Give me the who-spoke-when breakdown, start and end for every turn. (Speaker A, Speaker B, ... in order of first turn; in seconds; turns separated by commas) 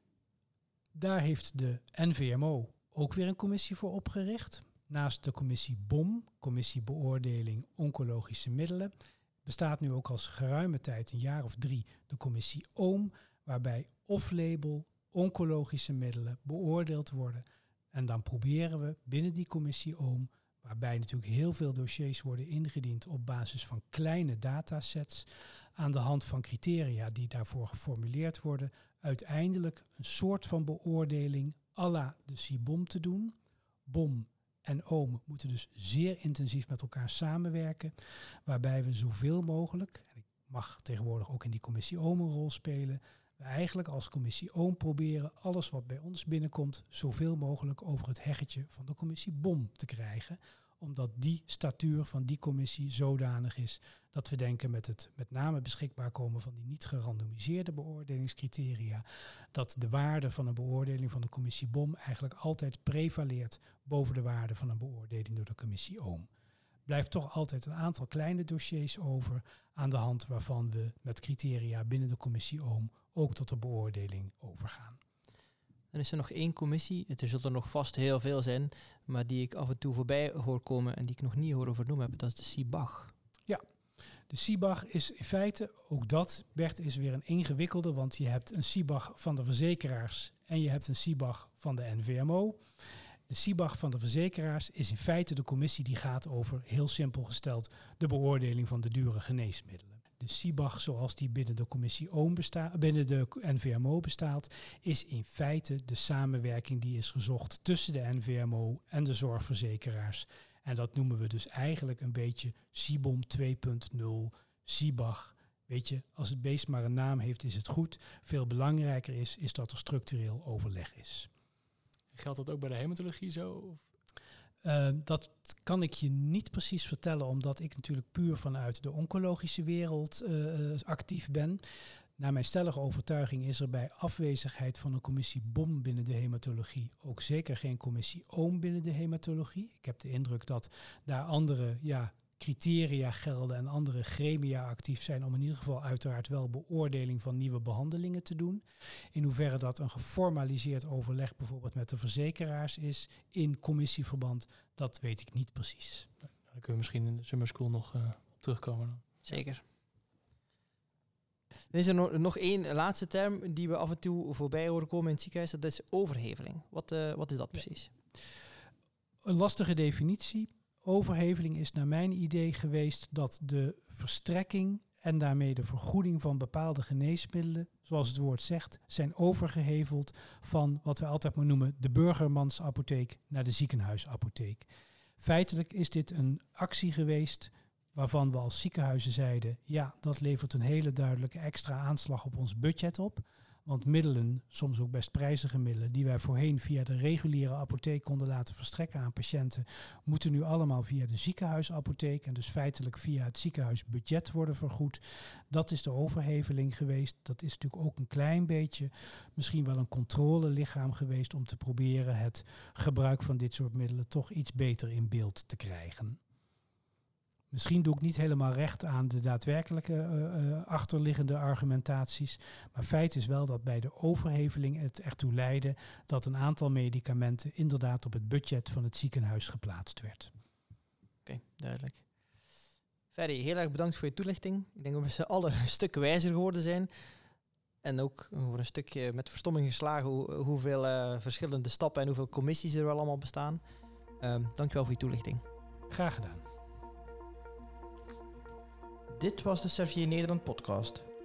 Speaker A: 0.9-8.9, Speaker A: 9.4-25.3, Speaker A: 25.8-33.4, Speaker A: 33.9-37.9, Speaker A: 38.5-66.3, Speaker A: 66.9-75.0, Speaker B: 75.9-83.1, Speaker A: 84.3-92.6, Speaker A: 93.3-121.3, Speaker C: 122.1-123.8, Speaker A: 124.6-131.6, Speaker A: 132.2-148.6, Speaker A: 149.1-156.1, Speaker C: 156.5-159.1, Speaker B: 159.3-159.6, Speaker B: 161.7-167.9, Speaker A: 169.2-184.7, Speaker A: 185.2-216.2, Speaker A: 217.5-230.3, Speaker B: 231.2-232.1, Speaker B: 233.1-236.9, Speaker B: 237.8-243.6, Speaker B: 244.2-245.4, Speaker A: 245.9-246.4, Speaker B: 249.1-251.1